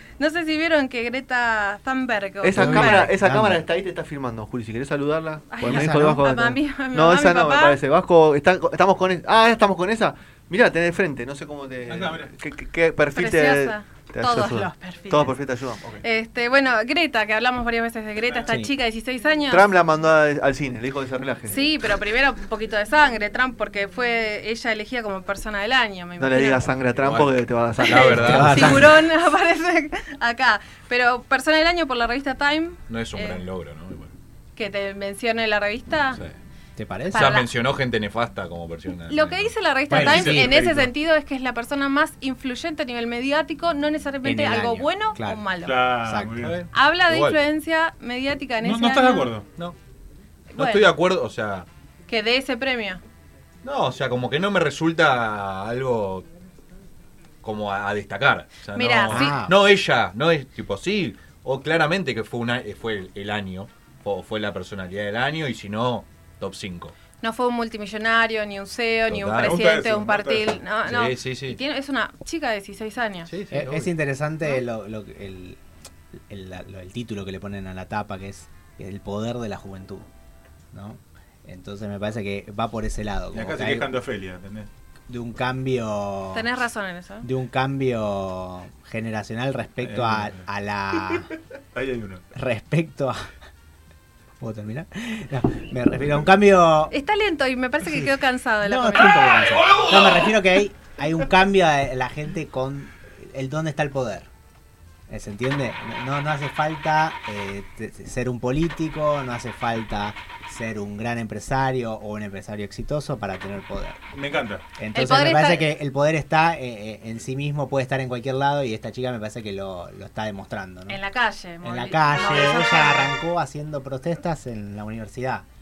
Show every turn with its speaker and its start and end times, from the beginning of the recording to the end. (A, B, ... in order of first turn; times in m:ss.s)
0:00.2-0:03.1 A
0:02.4-0:16.0 B
0:02.5-0:03.6 C
0:05.5-0:07.8 A
0:05.6-0:06.3 C
0:11.9-0:12.3 D
0:13.1-0:15.4 A
0:16.0-0:19.6 A
0:19.5-0:21.6 B
0:21.5-0:26.7 A
0:26.2-0:28.8 B
0:26.9-0:28.8 E
0:27.8-0:33.4 A
0:28.2-0:29.0 C
0:32.9-0:34.1 E
0:34.6-0:36.2 A
0:36.8-0:37.4 C
0:37.1-0:37.5 A
0:37.1-0:39.5 E
0:39.1-0:45.8 A
0:39.9-0:40.9 D
0:39.9-0:40.7 C
0:44.2-0:45.4 C
0:45.6-0:46.6 D
0:46.0-0:46.5 C
0:46.4-0:47.4 E
0:46.7-0:49.3 A
0:48.6-0:49.5 D
0:50.5-0:50.9 A
0:50.6-0:51.7 E
0:52.1-0:53.0 A
0:53.6-0:56.3 E
0:57.4-1:06.9 E
0:58.7-0:59.4 A
0:59.1-0:59.6 C
1:07.2-1:13.3 A
1:09.1-1:09.6 E
1:09.4-1:10.6 D
1:10.8-1:11.6 E
1:13.5-1:13.8 E
1:13.5-1:15.6 C
1:16.1-1:20.1 C
1:20.7-1:23.9 C
1:23.3-1:24.7 D
1:25.1-1:26.5 C
1:26.3-1:27.3 A
1:27.2-1:31.3 C
1:29.8-1:30.4 D
1:31.7-1:32.2 D
1:32.3-1:33.3 C
1:34.4-1:36.9 C
1:36.9-1:39.4 A
1:37.8-1:44.3 C
1:45.1-1:54.0 C
1:54.1-1:54.6 D
1:54.8-2:01.0 C
1:54.9-1:55.7 A
2:00.9-2:03.1 A
2:01.6-2:05.4 C